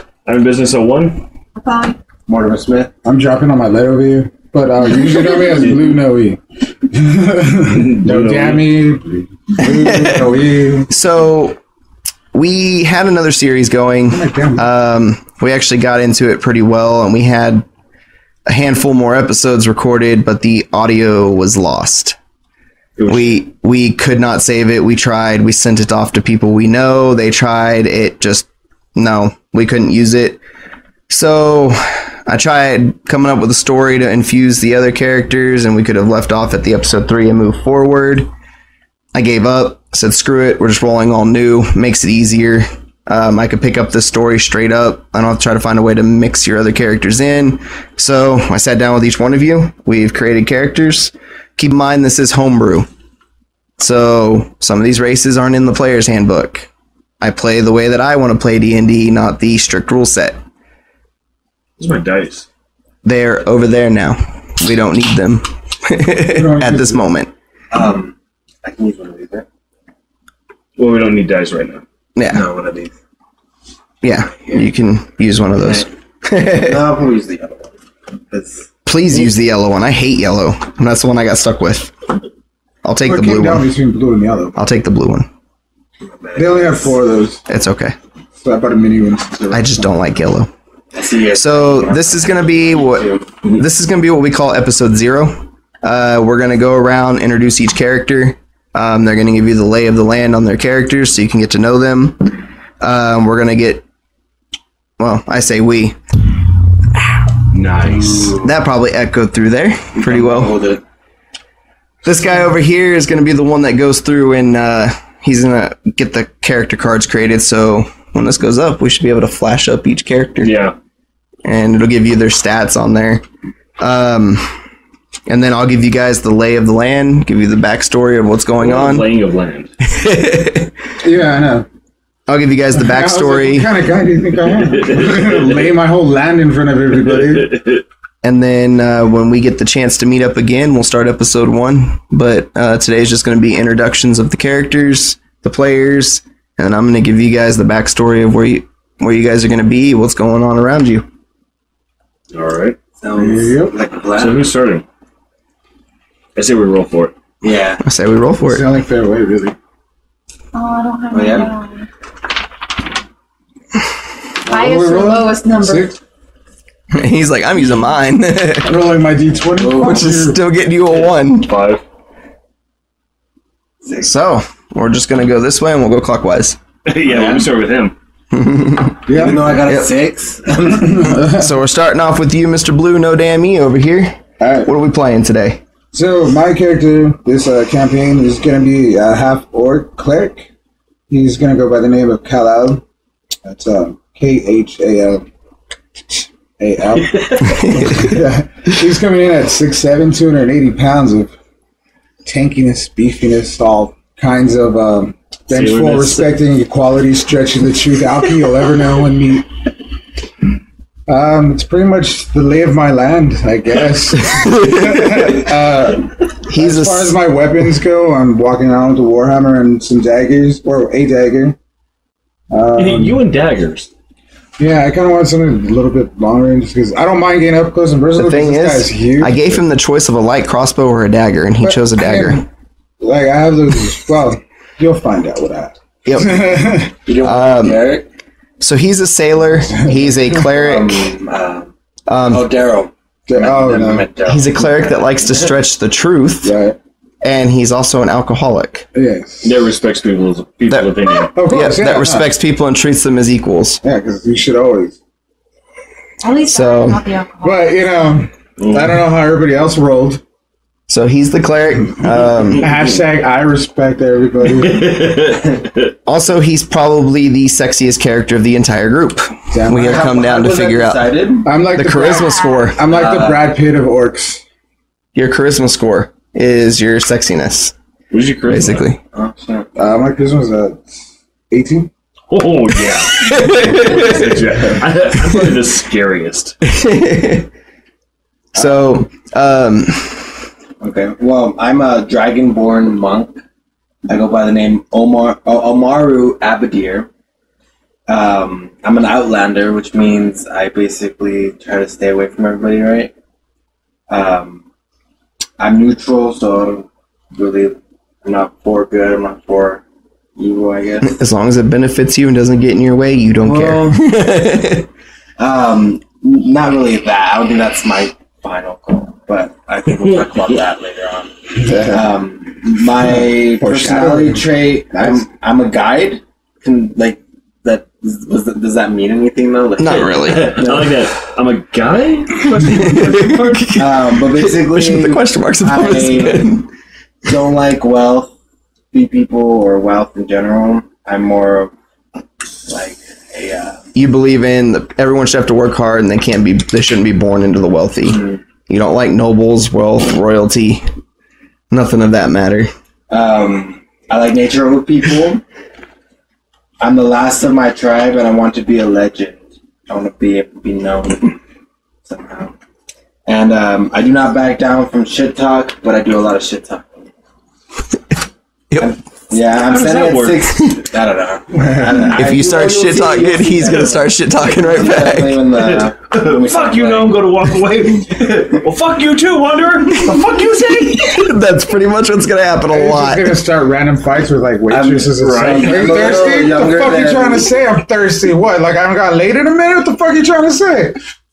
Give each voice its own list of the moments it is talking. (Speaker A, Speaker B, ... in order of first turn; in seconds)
Speaker A: 0.3-1.3, 7.7-8.7, 23.0-23.4, 61.8-62.5, 70.8-71.8, 107.5-108.4, 120.4-120.7, 128.6-129.7, 134.5-135.6, 137.1-137.8, 152.3-152.8, 154.2-154.8, 156.4-157.1, 171.4-171.8, 176.9-177.9, 197.0-197.6, 205.5-206.3, 222.8-223.9, 249.4-251.3, 258.6-259.0, 264.5-265.7, 278.1-278.9, 282.3-286.6, 330.0-333.7, 369.4-370.8, 375.5-381.2, 385.1-386.3
Speaker B: 1.6-2.0, 160.5-161.9, 164.5-165.9, 256.2-258.0
Speaker C: 2.3-2.9, 67.7-69.5, 72.3-72.9, 75.6-75.9, 76.5-77.7, 78.3-78.7, 86.0-87.0, 90.9-93.3, 110.0-110.8, 153.0-154.5, 157.4-157.8, 161.1-161.5, 169.6-170.1, 177.1-177.5, 179.1-181.1, 237.0-238.1, 240.5-241.7, 242.3-245.5, 269.7-271.5, 272.9-273.5, 279.1-279.7, 290.8-293.4, 294.1-297.1, 298.1-303.1, 304.1-304.6, 305.6-309.8, 310.4-311.1, 313.4-314.0, 315.4-331.0, 333.8-336.5, 337.2-338.3, 338.9-341.7, 342.7-343.8, 348.1-348.4, 353.1-355.4, 356.8-361.4, 362.1-362.6, 363.3-367.1, 368.8-377.2, 384.7-387.5
Speaker D: 3.0-10.9, 14.1-14.7, 66.3-67.0, 83.0-84.6, 86.3-87.4, 88.4-89.9, 131.0-131.7, 132.7-137.6, 153.2-153.8, 158.4-159.6, 164.5-166.0, 168.6-170.4, 179.1-179.5, 180.8-181.5, 184.4-184.7, 185.9-190.5, 191.1-192.8, 193.4-195.2, 196.1-201.3, 202.2-209.5, 211.1-221.6, 222.5-223.2, 224.6-229.4, 231.6-232.5, 233.0-237.0, 239.7-240.5, 243.3-244.1, 246.4-246.8, 248.9-249.7, 251.3-252.3, 253.8-255.0, 257.4-260.2, 262.6-264.9, 269.5-270.1, 271.4-274.4, 279.8-281.0, 281.5-281.9, 321.5-322.1, 323.1-325.3, 371.6-372.1, 382.7-391.0
Speaker E: 9.7-10.3, 10.9-11.6, 12.3-17.7, 18.5-22.2, 23.1-30.4, 31.1-38.3, 39.1-52.9, 53.8-56.7, 57.2-60.4, 63.0-67.3, 72.2-72.4, 74.0-76.8, 78.8-81.9, 82.8-83.7, 84.6-85.3, 87.5-88.0, 89.5-90.5, 91.3-103.8, 105.0-106.0, 108.4-110.5, 112.0-120.5, 121.5-123.2, 123.8-124.6, 125.3-129.1, 129.8-130.7, 132.3-133.7, 138.2-151.1, 157.8-158.7, 166.9-168.8, 169.8-171.5, 174.0-176.6, 178.3-179.0, 181.4-185.6, 197.6-198.0, 216.5-217.2, 228.2-232.4, 236.1-236.6, 237.2-237.8, 238.6-241.1, 242.1-242.5, 244.2-246.5, 247.2-248.9, 251.5-253.8, 256.5-257.0, 260.9-262.7, 266.1-271.1, 271.7-272.8, 275.1-277.8, 278.5-279.0, 283.2-284.0, 286.6-287.5, 288.6-290.5, 311.0-314.9, 329.8-330.6, 332.6-336.7, 343.9-350.9, 351.7-352.7, 372.2-375.4, 380.9-383.4